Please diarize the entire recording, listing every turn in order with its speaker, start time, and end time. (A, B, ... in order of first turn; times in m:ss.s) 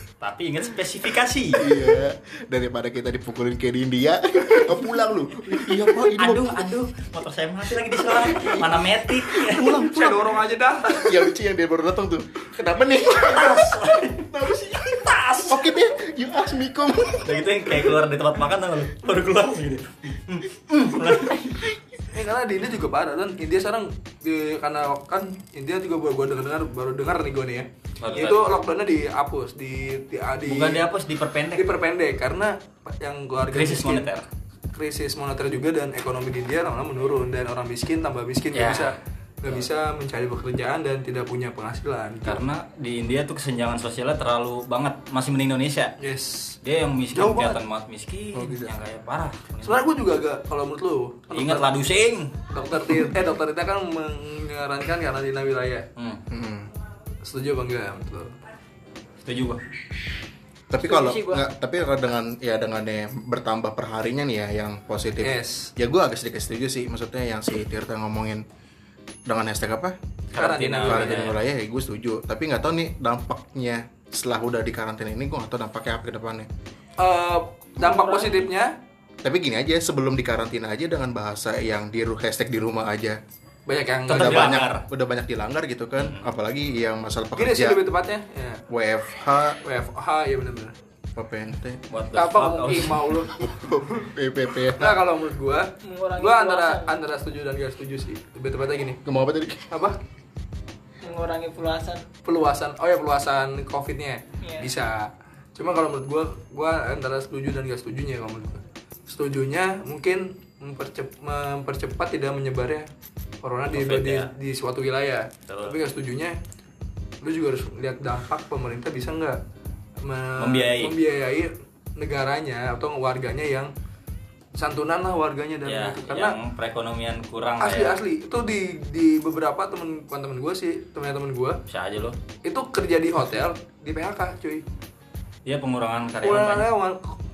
0:00.2-0:01.7 A
0:01.6-0:06.6 B
0:06.2-0:09.8 A
0:08.1-0:08.6 B
0:09.3-0:10.4 B
0:09.8-0:11.3 C
0:11.0-0:14.8 B
0:13.1-0:15.6 A
0:15.5-0:17.4 B
0:17.2-0:21.7 A
0:22.1-0:30.8 C
0:28.0-0:28.6 A
0:30.5-0:31.7 A
0:31.6-0:34.1 C
0:33.5-0:34.2 A
0:34.7-0:42.4 C
0:38.5-0:38.9 A
0:42.2-0:45.9 A
0:46.0-0:46.6 C
0:46.6-0:49.8 A
0:47.1-0:47.6 C
0:48.3-0:48.8 B
0:49.6-0:51.7 C
0:51.3-0:52.3 A
0:52.5-0:55.8 C
0:56.0-0:56.2 A
0:56.3-0:56.7 B
0:57.2-0:58.3 C
0:59.2-0:59.6 A
1:00.7-1:08.4 B
1:00.8-1:01.5 D
1:05.2-1:05.7 C
1:09.3-1:10.0 B
1:10.3-1:11.4 A
1:10.4-1:11.3 C
1:10.8-1:16.5 B
1:17.0-1:18.7 C
1:17.8-1:18.5 D
1:19.2-1:23.2 B
1:23.6-1:24.6 C
1:24.1-1:24.8 A
1:24.1-1:27.8 B
1:26.0-1:26.3 A
1:27.4-1:28.6 C
1:28.7-1:29.6 B
1:29.6-1:30.7 C
1:31.2-1:31.8 B
1:31.9-1:33.1 A
1:32.1-1:33.5 C
1:33.3-1:35.0 B
1:34.7-1:39.0 C
1:35.8-1:36.9 D
1:39.0-1:39.7 B
1:39.7-1:40.0 C
1:41.0-1:42.0 D
1:42.2-1:52.9 C
1:44.4-1:44.7 D
1:53.4-1:56.4 C
1:53.7-1:54.3 A
1:55.5-1:55.8 A
1:57.2-1:59.4 C
2:00.0-2:03.7 C
2:00.4-2:00.9 A
2:04.6-2:06.4 C
2:05.6-2:08.0 A
2:07.6-2:11.6 C
2:11.7-2:12.2 A
2:12.4-2:14.6 C
2:15.4-2:16.7 A
2:16.2-2:17.1 C